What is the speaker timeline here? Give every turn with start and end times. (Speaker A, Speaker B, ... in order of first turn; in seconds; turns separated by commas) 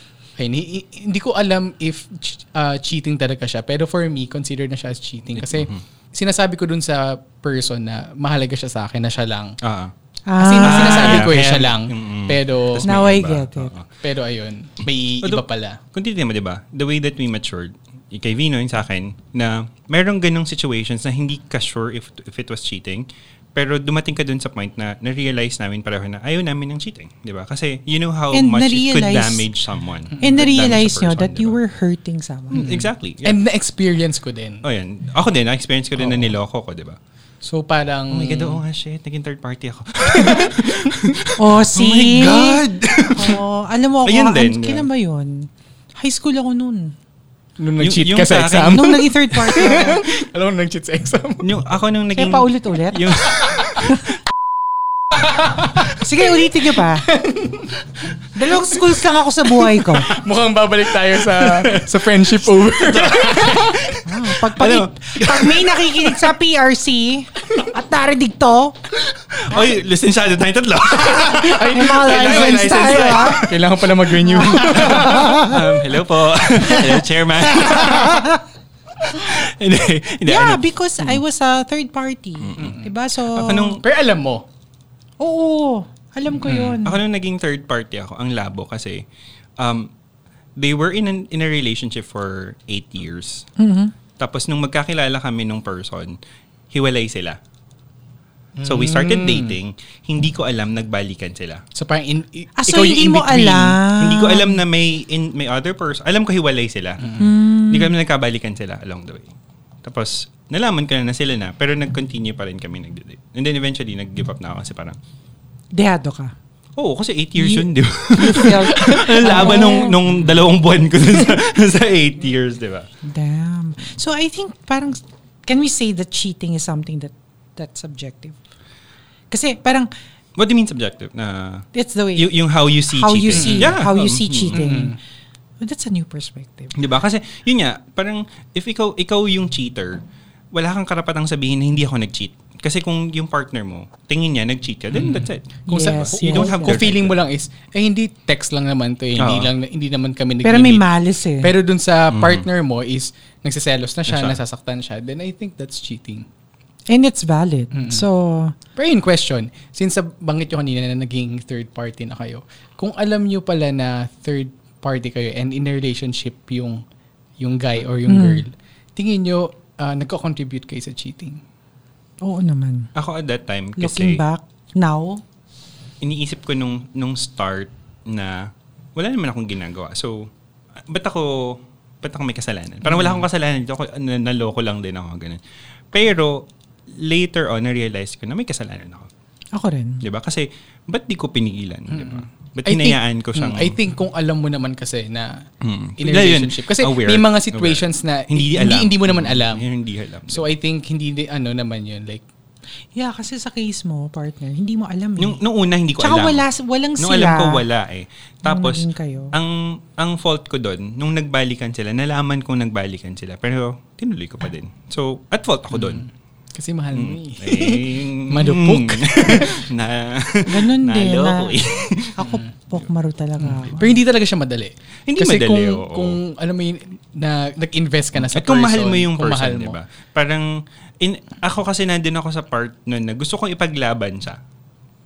Speaker A: 0.4-9.6, Speaker B: 5.3-5.8, Speaker B: 9.6-9.9, Speaker C: 10.3-11.3, Speaker A: 10.4-12.8, Speaker B: 10.6-13.8, Speaker C: 12.8-13.7, Speaker A: 14.0-15.8, Speaker B: 15.2-31.6, Speaker C: 28.3-29.4, Speaker C: 30.2-32.7, Speaker B: 32.5-33.4, Speaker A: 32.6-34.6, Speaker B: 34.6-37.0, Speaker A: 36.0-36.3, Speaker A: 37.4-38.6, Speaker B: 38.1-43.4, Speaker A: 40.2-40.9, Speaker C: 41.3-46.9, Speaker B: 44.0-44.9, Speaker A: 47.6-51.6, Speaker B: 47.8-49.0, Speaker C: 48.6-50.0, Speaker B: 51.4-54.1, Speaker C: 52.1-53.2, Speaker A: 53.4-53.9, Speaker A: 55.2-55.8, Speaker C: 55.9-57.1, Speaker A: 57.0-57.7, Speaker C: 58.3-60.1, Speaker A: 60.0-63.9, Speaker B: 61.1-66.3, Speaker C: 64.0-68.8, Speaker B: 69.0-73.7, Speaker A: 71.2-75.4, Speaker C: 71.5-73.5, Speaker C: 74.2-75.8, Speaker B: 74.3-78.3, Speaker C: 76.6-77.0, Speaker C: 77.5-78.4, Speaker B: 79.0-80.6, Speaker C: 80.2-83.8, Speaker B: 82.4-83.8, Speaker A: 82.6-82.9, Speaker A: 83.6-84.5, Speaker C: 85.2-87.0, Speaker A: 86.5-86.8, Speaker B: 86.8-89.0, Speaker B: 89.6-89.9, Speaker B: 90.5-93.5, Speaker C: 93.6-93.9, Speaker B: 94.2-96.2, Speaker B: 96.7-97.4, Speaker A: 98.5-99.5, Speaker B: 98.6-101.6, Speaker A: 101.7-103.8, Speaker C: 102.6-104.6, Speaker B: 104.0-107.1, Speaker A: 107.0-107.3, Speaker C: 107.2-107.9, Speaker B: 107.6-115.0, Speaker C: 115.7-116.3, Speaker B: 116.8-122.9, Speaker C: 117.4-120.0, Speaker A: 118.8-119.8, Speaker C: 123.0-128.4, Speaker C: 129.3-129.9, Speaker B: 130.4-134.7, Speaker C: 131.7-135.0, Speaker A: 133.3-133.8, Speaker A: 134.5-135.0, Speaker C: 135.6-136.7, Speaker B: 136.7-147.2, Speaker A: 144.9-150.8, Speaker C: 145.7-146.8, Speaker B: 149.2-149.5, Speaker C: 150.4-151.5, Speaker A: 151.4-156.3, Speaker B: 152.1-152.4, Speaker B: 154.1-154.4, Speaker C: 156.9-158.5, Speaker A: 157.7-158.0, Speaker A: 158.8-166.8, Speaker A: 167.4-171.4, Speaker C: 168.1-168.4, Speaker C: 172.2-172.9, Speaker B: 172.9-174.2, Speaker C: 173.8-175.2, Speaker B: 176.0-189.1, Speaker C: 189.5-190.0, Speaker B: 190.0-193.8, Speaker A: 191.9-195.5, Speaker B: 195.6-200.5, Speaker A: 196.0-199.6, Speaker A: 200.3-202.2, Speaker C: 202.9-205.4, Speaker B: 205.2-206.4, Speaker C: 206.0-207.6, Speaker B: 207.0-216.1, Speaker C: 208.4-209.3, Speaker A: 215.7-219.6, Speaker B: 216.9-222.2, Speaker C: 220.4-221.6, Speaker A: 222.2-222.5, Speaker C: 222.2-223.8, Speaker A: 223.4-229.8, Speaker B: 223.5-223.8, Speaker B: 225.1-226.2, Speaker B: 228.1-234.4